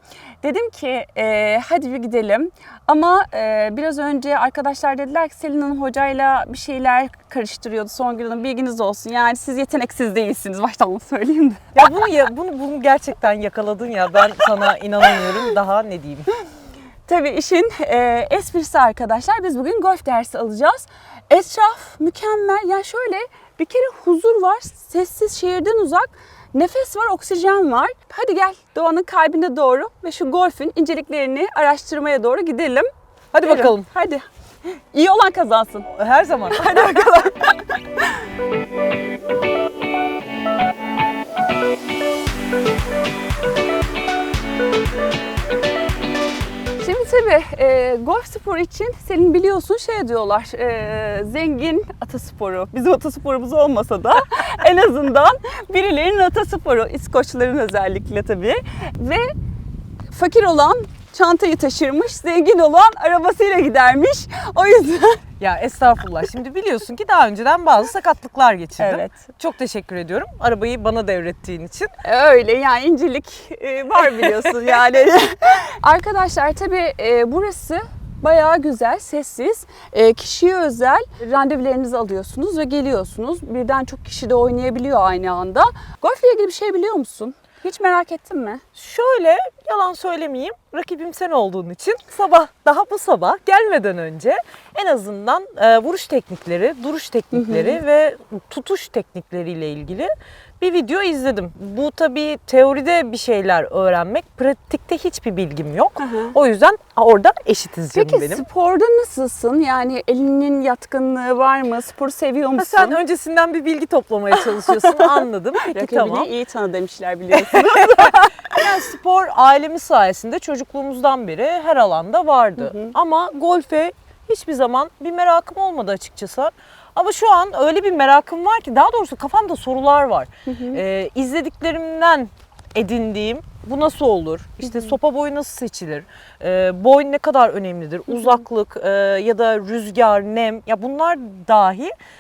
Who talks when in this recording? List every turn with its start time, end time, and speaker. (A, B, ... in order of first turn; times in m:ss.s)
0:00.4-0:11.7 A
0:11.8-0:16.3 B
0:17.1-0:32.9 A
0:33.3-0:33.9 B
0:33.4-0:34.2 A
0:34.9-0:35.9 A
0:35.9-0:36.8 B
0:36.5-0:38.1 A
0:46.8-0:59.3 A
1:00.1-1:05.2 A
1:05.4-1:11.9 B
1:08.8-1:09.2 A
1:12.0-1:28.6 A
1:14.1-1:14.8 B
1:28.8-1:48.4 B
1:37.3-1:37.8 A
1:46.0-1:46.3 A
1:48.0-1:53.0 A
1:52.6-1:56.3 B
1:54.6-1:58.6 A
1:57.3-2:21.9 B
2:02.6-2:02.9 A
2:10.5-2:10.8 A
2:14.6-2:14.9 A